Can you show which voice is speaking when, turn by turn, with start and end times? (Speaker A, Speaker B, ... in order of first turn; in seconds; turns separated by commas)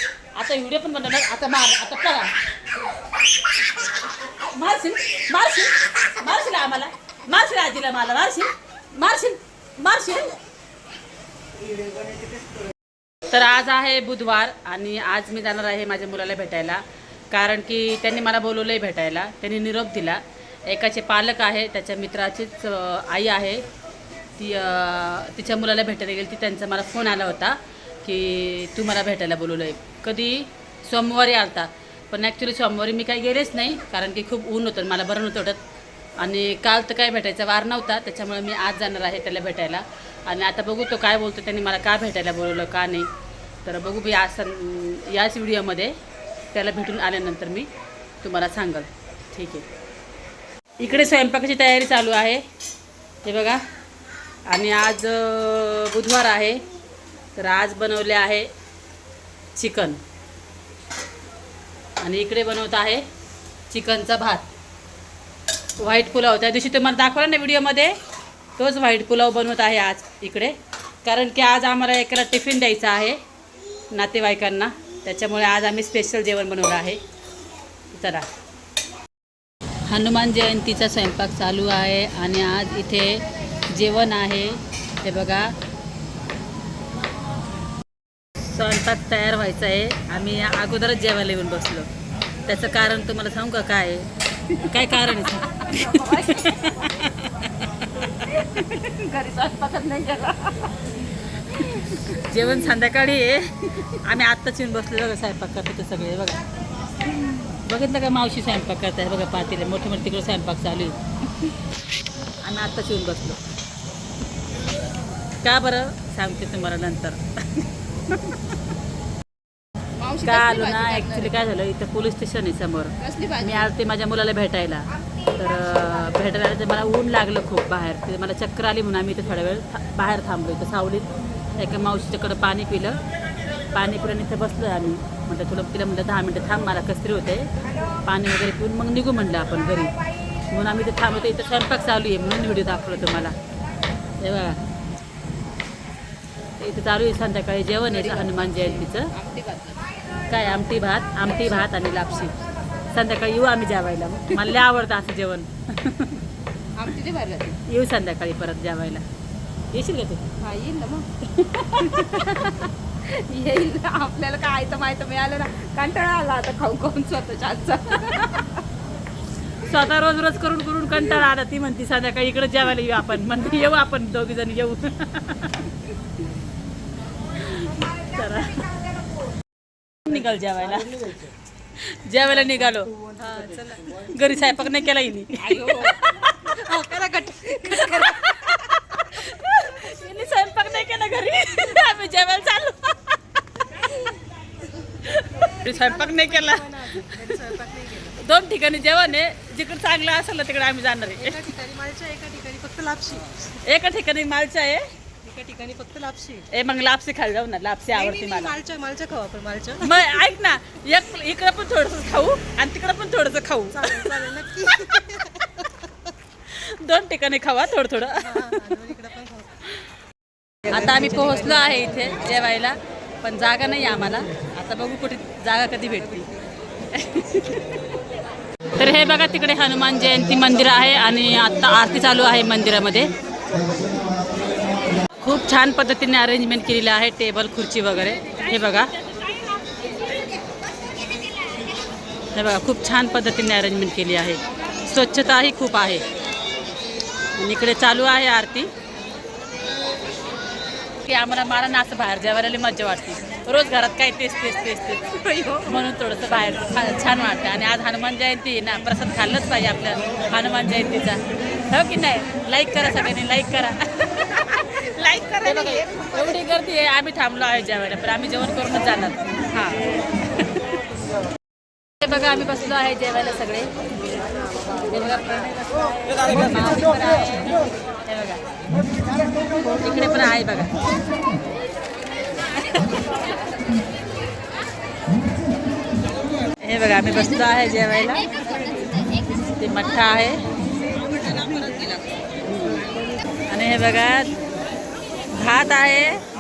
Speaker A: 0.4-2.3, Speaker A: 4.2-10.4, Speaker A: 13.3-23.7, Speaker A: 24.4-35.6, Speaker A: 36.2-43.1, Speaker A: 43.6-46.0, Speaker A: 46.5-47.7, Speaker A: 48.2-49.7, Speaker A: 50.8-52.4, Speaker A: 53.2-53.6, Speaker A: 54.5-56.6, Speaker A: 57.4-58.5, Speaker A: 59.6-60.0, Speaker A: 62.0-63.1, Speaker A: 63.7-64.5, Speaker A: 65.8-68.0, Speaker A: 68.6-73.2, Speaker A: 73.9-77.0, Speaker A: 77.9-78.3, Speaker A: 79.9-85.5, Speaker A: 88.4-91.9, Speaker A: 92.5-94.1, Speaker A: 94.6-97.2, Speaker B: 95.8-96.9, Speaker B: 98.3-100.8, Speaker B: 101.5-101.9, Speaker A: 102.0-106.4, Speaker A: 107.5-111.0, Speaker A: 112.4-113.4, Speaker A: 115.4-118.4, Speaker B: 120.0-121.5, Speaker A: 120.2-133.0, Speaker B: 123.0-123.7, Speaker A: 133.7-137.5, Speaker A: 138.1-139.9, Speaker A: 140.5-143.3, Speaker A: 144.2-144.6, Speaker A: 146.6-149.1, Speaker B: 147.9-149.8, Speaker A: 150.3-152.3, Speaker B: 151.3-151.6, Speaker A: 152.9-156.2, Speaker B: 156.8-157.6, Speaker A: 157.7-159.1, Speaker A: 159.7-160.2, Speaker B: 160.4-161.1, Speaker A: 161.2-162.7, Speaker B: 163.0-168.6, Speaker A: 169.6-175.7, Speaker A: 177.3-178.7, Speaker A: 180.1-181.2, Speaker A: 181.8-182.9, Speaker C: 183.0-184.0, Speaker A: 184.0-186.6, Speaker B: 185.4-186.0, Speaker C: 186.5-188.3, Speaker A: 187.7-193.1, Speaker A: 195.0-197.4, Speaker C: 195.7-198.1, Speaker A: 198.1-201.5, Speaker C: 201.2-203.3, Speaker A: 203.6-204.8, Speaker C: 205.2-206.5, Speaker A: 206.5-208.6, Speaker C: 207.9-210.0, Speaker A: 209.8-215.0, Speaker C: 213.8-215.2, Speaker A: 216.5-218.7, Speaker C: 218.3-219.5, Speaker A: 220.7-226.3, Speaker A: 226.9-227.8, Speaker A: 228.8-233.1, Speaker A: 235.2-238.9, Speaker A: 242.3-246.0, Speaker A: 247.4-248.7, Speaker A: 251.0-255.1, Speaker B: 255.1-255.8, Speaker A: 255.6-264.6, Speaker B: 264.8-266.1, Speaker A: 265.4-270.7, Speaker A: 272.0-273.7, Speaker A: 274.8-278.4, Speaker A: 279.8-280.8, Speaker A: 286.6-288.3, Speaker B: 288.7-289.2, Speaker A: 289.4-290.5, Speaker B: 290.8-292.4, Speaker A: 292.5-292.8, Speaker A: 293.5-294.4, Speaker A: 295.3-296.2